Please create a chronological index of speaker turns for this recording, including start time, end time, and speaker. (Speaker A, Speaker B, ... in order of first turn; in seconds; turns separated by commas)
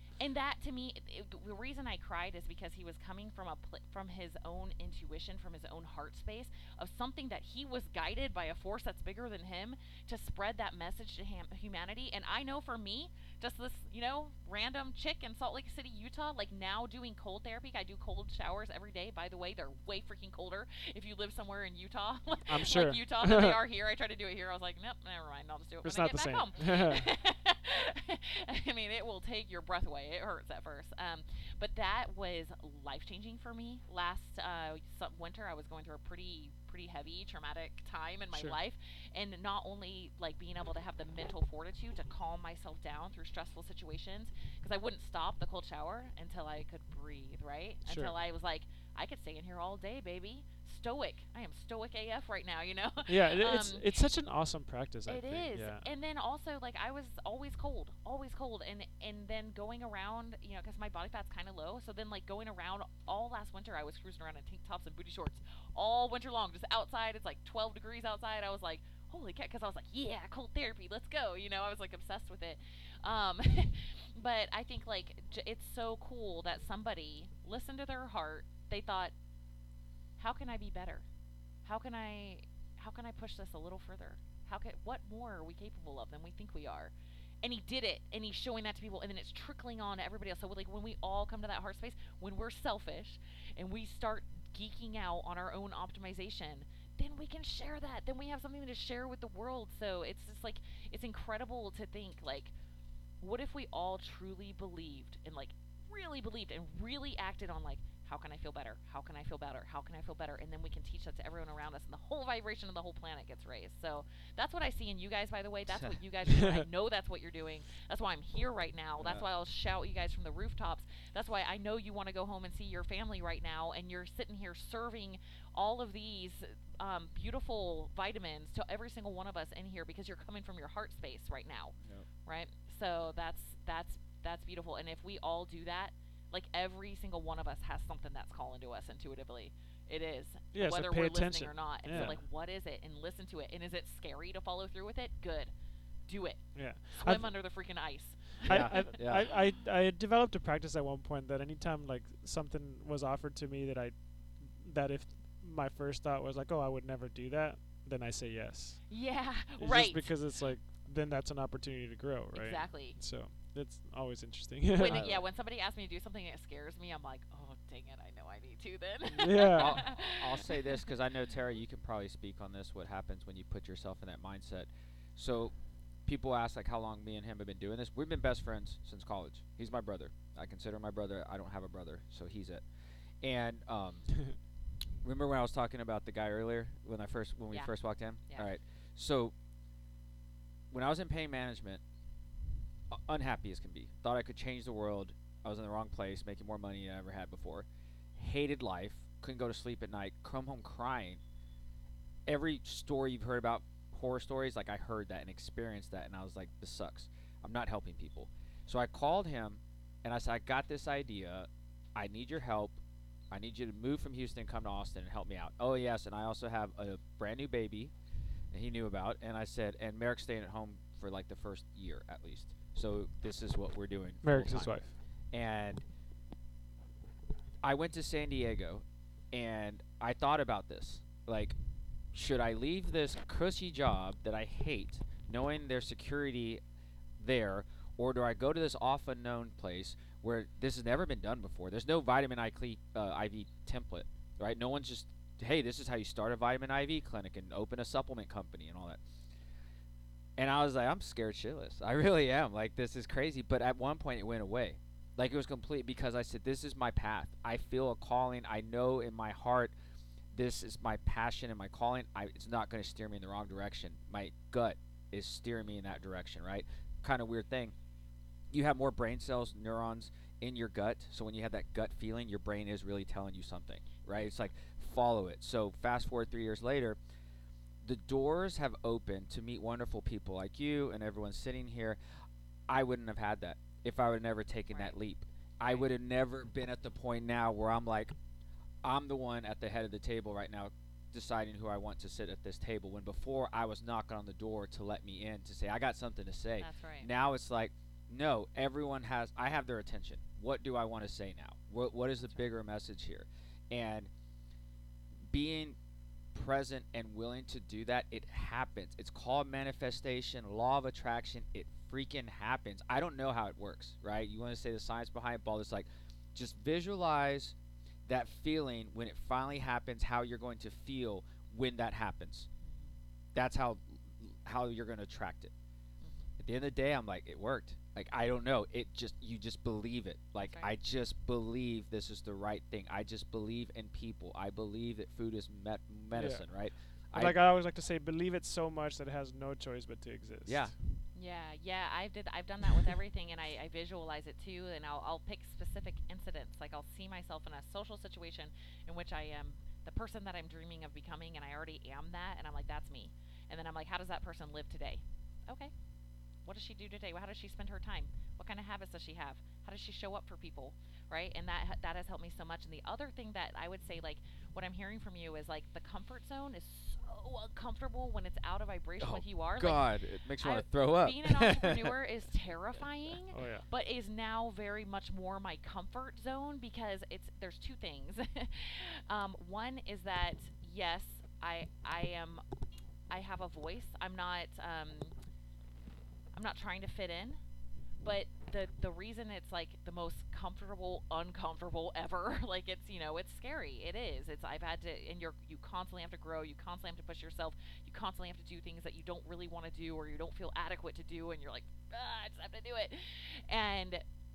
Speaker A: 0.2-54.0, Speaker B: 22.5-23.6, Speaker B: 25.8-27.1, Speaker B: 38.3-38.6, Speaker B: 47.9-48.2, Speaker B: 53.1-55.9, Speaker A: 55.1-79.1, Speaker A: 80.2-81.1, Speaker A: 81.7-86.9, Speaker A: 87.4-102.5, Speaker A: 103.2-145.5, Speaker C: 119.0-119.2, Speaker B: 140.5-142.2, Speaker C: 141.9-142.2, Speaker A: 146.1-149.0, Speaker B: 146.6-147.3, Speaker B: 148.4-158.8, Speaker C: 148.5-149.3, Speaker A: 158.9-160.1, Speaker B: 159.6-165.1, Speaker A: 162.3-163.0, Speaker A: 164.8-170.8, Speaker C: 164.8-165.2, Speaker B: 169.1-169.8, Speaker C: 169.6-175.5, Speaker C: 176.1-182.6, Speaker C: 183.2-184.2, Speaker C: 185.0-189.3, Speaker C: 190.7-191.8, Speaker C: 192.9-201.2, Speaker C: 202.3-212.8, Speaker C: 213.3-217.9, Speaker C: 218.5-225.8, Speaker B: 224.2-225.0, Speaker C: 227.6-231.6, Speaker C: 232.1-236.6, Speaker C: 237.2-249.0, Speaker C: 250.4-259.7, Speaker C: 260.3-267.7, Speaker C: 268.5-277.0, Speaker A: 274.2-274.5, Speaker C: 277.8-282.0, Speaker C: 282.7-288.1, Speaker A: 284.7-285.0, Speaker A: 285.6-285.9, Speaker C: 288.8-304.1, Speaker A: 296.6-297.1, Speaker C: 305.3-305.8, Speaker C: 306.3-317.5, Speaker C: 318.1-322.5, Speaker A: 322.6-322.9, Speaker C: 323.4-325.5, Speaker A: 326.0-326.3, Speaker C: 326.4-337.4, Speaker A: 330.4-330.7, Speaker B: 336.1-336.4, Speaker B: 337.1-340.7, Speaker C: 340.5-340.7, Speaker A: 341.1-355.7, Speaker A: 356.4-369.9, Speaker C: 369.0-371.9, Speaker A: 370.4-382.4, Speaker B: 373.3-373.6, Speaker A: 383.1-385.1, Speaker A: 386.3-387.4, Speaker A: 388.0-404.0